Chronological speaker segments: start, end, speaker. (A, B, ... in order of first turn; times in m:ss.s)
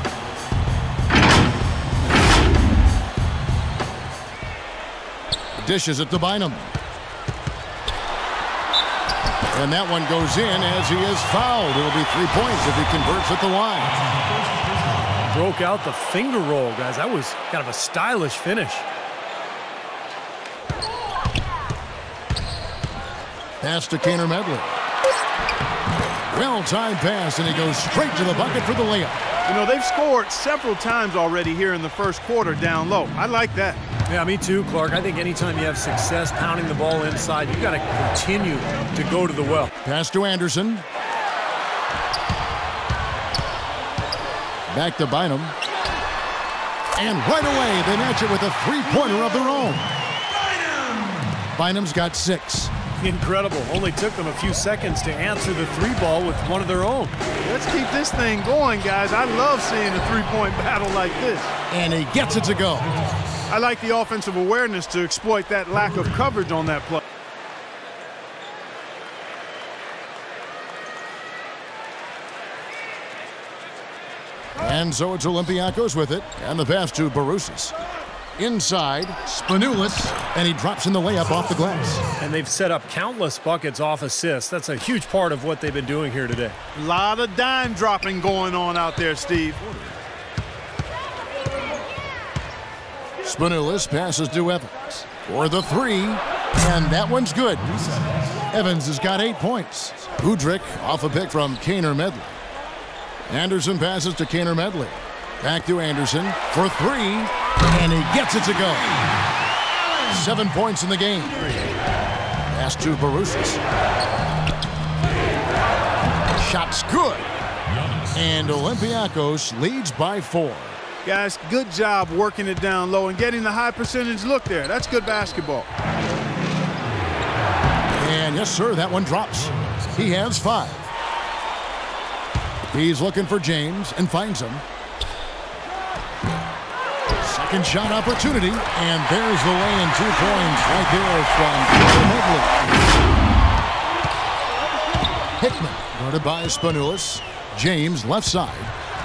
0:05.6-0:06.7 A
0:09.5-0:14.0 A
0:15.2-0:18.8 B
0:23.6-0:24.8 A
0:26.2-0:29.2 A
0:29.4-0:33.8 C
0:34.1-0:39.7 B
0:39.8-0:40.8 A
0:44.7-0:45.5 A
0:46.9-0:49.9 A
0:51.5-0:52.7 A
0:53.0-0:57.1 B
0:57.4-1:01.5 C
1:01.7-1:02.9 A
1:03.5-1:07.0 C
1:14.6-1:17.7 A
1:18.4-1:22.0 A
1:22.2-1:26.6 B
1:26.7-1:29.6 C
1:29.6-1:29.9 A
1:33.2-1:37.8 A
1:38.5-1:42.4 A
1:43.3-1:48.9 A
1:50.1-1:51.7 A
1:52.5-1:53.6 A
1:56.4-1:57.3 A
1:58.1-2:00.8 A
2:01.0-2:05.7 C
2:08.0-2:10.9 A
2:12.7-2:14.6 A
2:17.2-2:22.6 A
2:25.4-2:28.7 A